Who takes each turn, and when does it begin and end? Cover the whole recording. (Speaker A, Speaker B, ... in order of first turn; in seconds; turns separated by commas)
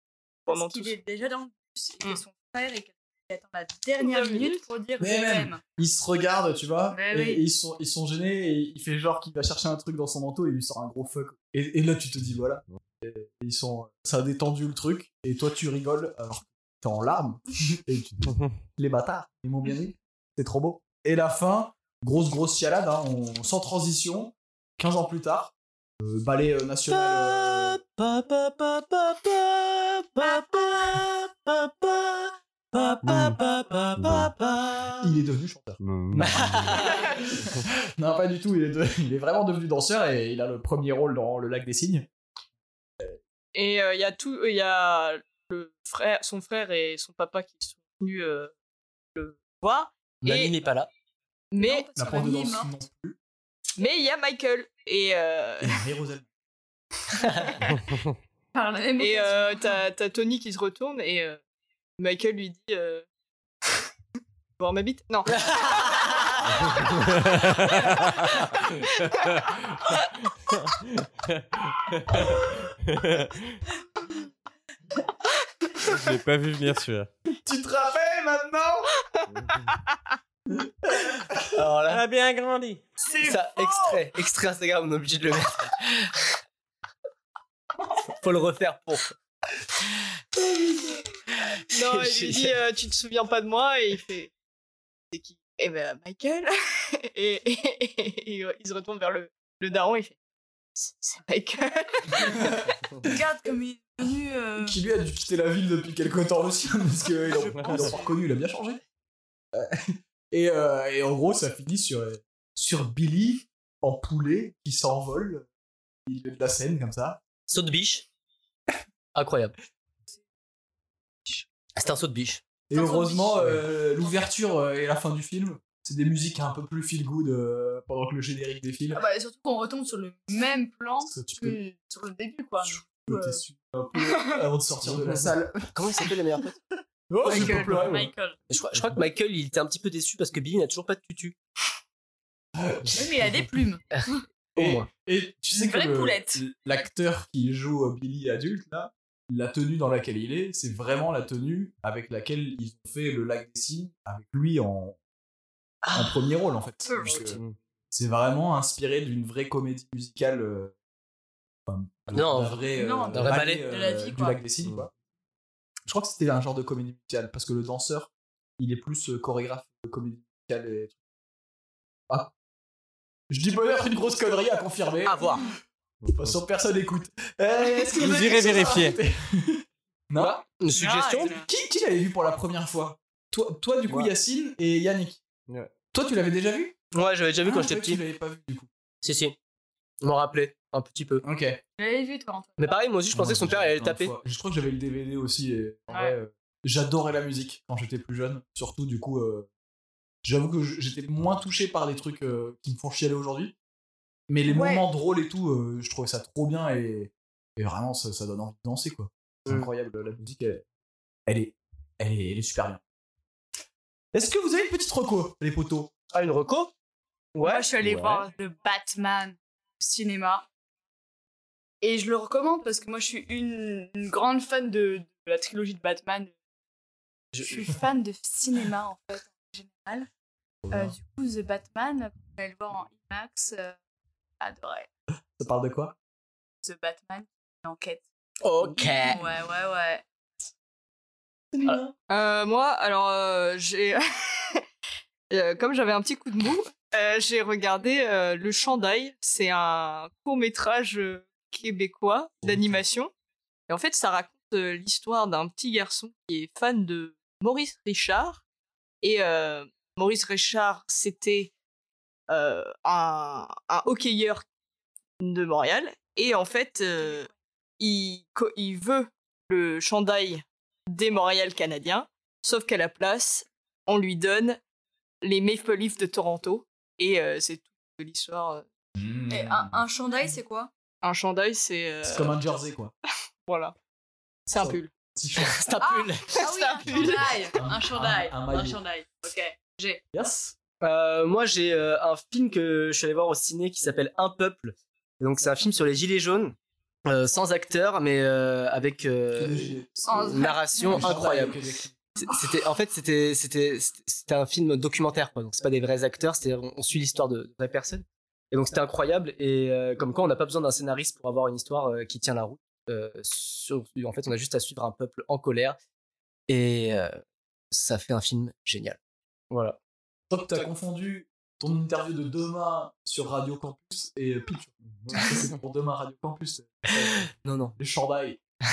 Speaker A: 0.5-1.0, Speaker B: 0.5-5.6, Speaker A: 4.0-4.6, Speaker C: 5.0-27.8, Speaker B: 6.9-7.4, Speaker D: 26.9-35.1, Speaker E: 33.0-33.4, Speaker E: 34.0-34.3, Speaker C: 35.0-42.1, Speaker E: 35.8-36.9, Speaker D: 36.2-37.1, Speaker A: 43.5-48.5, Speaker A: 49.2-50.5, Speaker D: 50.2-50.9, Speaker A: 51.5-51.9, Speaker B: 51.6-52.7, Speaker C: 52.0-53.2, Speaker A: 53.8-55.8, Speaker C: 55.6-56.3, Speaker D: 57.2-57.5, Speaker B: 58.5-59.8, Speaker A: 59.0-61.4, Speaker A: 62.0-63.1, Speaker A: 64.6-66.0, Speaker D: 65.4-66.6, Speaker E: 66.6-69.9, Speaker E: 70.5-73.6, Speaker E: 75.9-77.1, Speaker C: 77.4-78.9, Speaker E: 79.3-79.7, Speaker C: 80.5-81.5, Speaker D: 81.5-82.0, Speaker E: 81.9-82.8, Speaker B: 83.0-84.0, Speaker D: 83.2-86.4, Speaker D: 88.1-89.2, Speaker D: 91.3-92.5, Speaker A: 91.7-94.3, Speaker A: 95.1-100.2, Speaker A: 100.8-102.4, Speaker C: 102.3-102.6, Speaker B: 103.0-104.8, Speaker C: 104.6-108.8, Speaker E: 107.5-108.0, Speaker B: 107.7-108.0, Speaker C: 109.5-115.5, Speaker C: 116.1-117.2, Speaker D: 117.5-118.1, Speaker D: 119.2-119.5, Speaker D: 121.7-122.4, Speaker C: 122.7-129.0, Speaker B: 122.7-123.5, Speaker B: 128.9-133.4, Speaker C: 131.0-131.6, Speaker C: 132.6-136.1, Speaker B: 134.1-134.4, Speaker D: 135.7-136.6, Speaker C: 137.1-138.1, Speaker B: 137.2-138.4, Speaker D: 138.5-141.4, Speaker C: 142.6-143.4, Speaker B: 142.9-143.8, Speaker D: 143.9-144.9, Speaker C: 144.6-155.0, Speaker B: 145.5-146.4, Speaker D: 155.8-156.4, Speaker C: 155.9-160.7, Speaker B: 156.9-157.4, Speaker C: 161.7-164.9, Speaker D: 162.1-163.6, Speaker B: 162.7-164.4, Speaker C: 165.9-171.0, Speaker C: 173.3-175.6, Speaker D: 175.1-175.5, Speaker E: 176.0-176.4, Speaker C: 176.1-180.4, Speaker E: 177.9-179.0, Speaker D: 180.2-181.3, Speaker B: 180.7-181.5, Speaker C: 181.4-185.2, Speaker C: 185.9-186.8, Speaker D: 186.9-188.0, Speaker C: 187.4-188.7, Speaker D: 189.0-189.4, Speaker D: 190.0-191.2, Speaker C: 191.2-191.6, Speaker B: 191.8-192.8, Speaker D: 192.6-194.1, Speaker C: 193.1-199.5, Speaker B: 195.9-196.2, Speaker C: 200.2-203.6, Speaker C: 204.3-210.6, Speaker B: 204.5-204.8, Speaker C: 211.3-212.8, Speaker C: 214.1-215.9, Speaker D: 216.1-216.7, Speaker D: 217.3-217.7, Speaker B: 217.4-220.5, Speaker E: 217.8-218.2, Speaker B: 221.8-226.3, Speaker D: 227.3-227.8, Speaker B: 227.4-230.1, Speaker C: 230.7-231.0, Speaker B: 230.7-233.8, Speaker B: 234.4-234.9, Speaker C: 235.4-236.0, Speaker B: 236.6-238.1, Speaker D: 238.4-239.3, Speaker B: 239.0-240.1, Speaker C: 241.5-241.9, Speaker A: 242.1-244.6, Speaker A: 245.3-253.1, Speaker A: 253.7-258.4, Speaker A: 259.0-261.5, Speaker A: 262.3-264.5, Speaker A: 265.2-274.6, Speaker A: 275.2-278.6, Speaker C: 279.0-279.8, Speaker B: 279.3-280.7, Speaker A: 281.0-282.4, Speaker C: 282.0-282.9, Speaker A: 283.5-283.8, Speaker A: 284.5-284.9, Speaker C: 284.5-285.6, Speaker D: 285.4-286.4, Speaker B: 285.8-290.0, Speaker A: 286.4-287.5, Speaker C: 286.8-288.8, Speaker C: 290.1-290.6, Speaker D: 290.8-301.6, Speaker C: 299.4-301.9, Speaker B: 300.1-301.2, Speaker D: 302.2-315.8, Speaker D: 316.5-319.0, Speaker D: 319.5-319.8, Speaker C: 320.3-328.4, Speaker E: 324.9-325.2, Speaker D: 327.0-327.8